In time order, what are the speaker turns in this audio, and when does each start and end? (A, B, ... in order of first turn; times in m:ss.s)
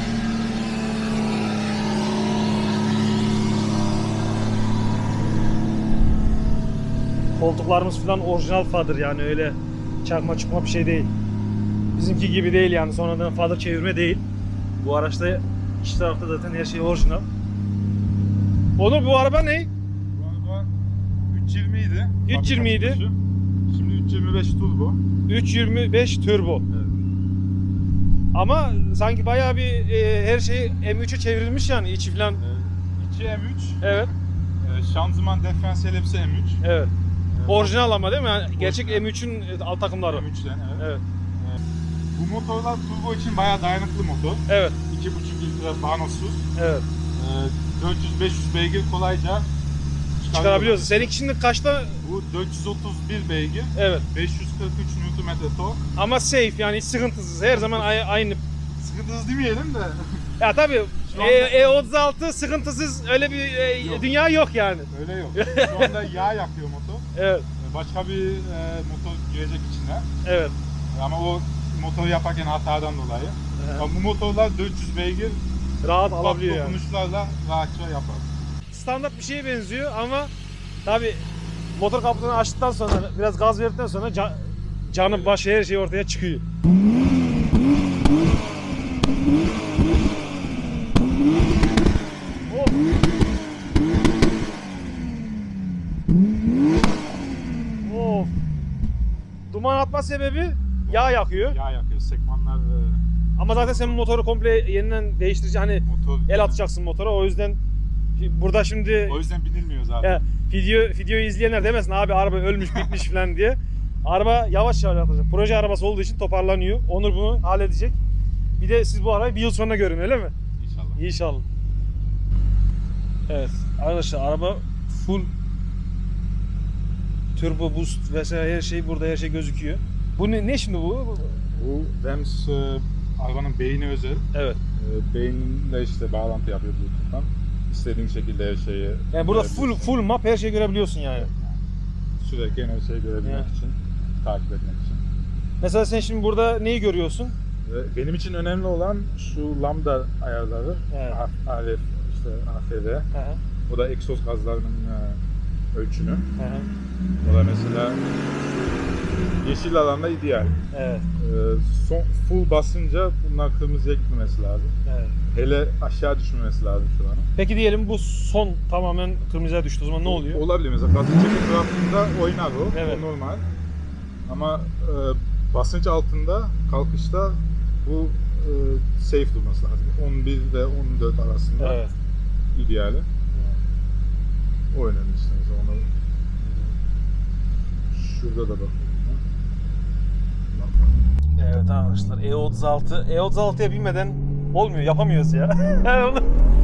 0:07.3-0:11.1 A
0:11.9-0:14.2 A
0:14.8-0:17.3 A
0:18.8-0:19.7 A
0:20.1-0:20.7 B
0:21.3-0:23.2 B
0:22.3-0:23.0 A
0:23.7-0:25.0 B
0:25.3-0:26.6 A
0:26.7-0:27.0 B
0:28.3-0:32.4 A
0:32.4-0:34.1 B
0:33.8-0:34.1 A
0:34.6-0:36.6 B
0:36.6-0:36.9 A
0:37.3-0:37.9 B
0:37.5-0:40.2 A
0:38.5-0:39.1 B
0:40.0-0:41.6 B
0:40.8-0:41.0 A
0:42.1-0:46.5 B
0:44.5-0:44.8 A
0:46.6-0:46.9 A
0:47.1-0:49.5 B
0:50.2-0:51.1 B
0:50.3-0:52.0 A
0:52.0-0:55.9 B
0:53.8-0:54.0 A
0:56.0-0:58.4 A
0:58.8-1:00.3 B
1:00.4-1:06.0 A
1:01.1-1:01.6 B
1:03.8-1:04.1 B
1:04.9-1:10.1 B
1:07.1-1:07.4 A
1:10.2-1:10.6 A
1:10.9-1:15.4 B
1:13.6-1:13.9 A
1:15.8-1:16.8 A
1:16.0-1:18.3 B
1:18.7-1:20.3 A
1:20.8-1:26.4 A
1:25.0-1:25.4 B
1:32.4-1:32.8 A
1:37.8-1:38.3 A
1:39.5-1:41.6 A
1:40.8-1:44.0 B
1:43.4-1:47.6 A
1:45.8-1:46.6 B
1:48.2-1:49.2 A
1:49.0-1:50.2 B
1:50.0-1:58.0 A
1:52.6-1:53.0 B
1:58.6-2:00.3 A
2:00.6-2:01.0 B
2:01.0-2:01.4 A
2:03.3-2:05.3 A
2:07.4-2:11.5 A
2:11.6-2:20.0 B
2:14.3-2:14.6 A
2:19.1-2:21.3 A
2:21.2-2:21.6 B
2:22.2-2:25.0 B
2:23.2-2:23.5 A
2:25.6-2:27.4 A
2:27.6-2:33.1 B
2:30.9-2:31.2 A
2:33.1-2:33.4 A
2:33.7-2:35.2 B
2:35.7-2:36.3 B
2:36.4-2:36.7 A
2:37.2-2:38.0 B
2:39.4-2:40.6 B
2:40.7-2:41.0 A
2:41.2-2:44.8 B
2:44.9-2:45.1 A
2:45.3-2:47.3 B
2:47.4-2:50.4 A
2:50.0-2:53.5 B
2:52.7-2:53.0 A
2:54.3-3:01.8 B
3:01.6-3:01.9 A
3:02.5-3:03.1 B
3:03.3-3:03.6 A
3:04.7-3:06.8 B
3:07.9-3:09.2 B
3:10.5-3:11.1 B
3:11.4-3:16.3 A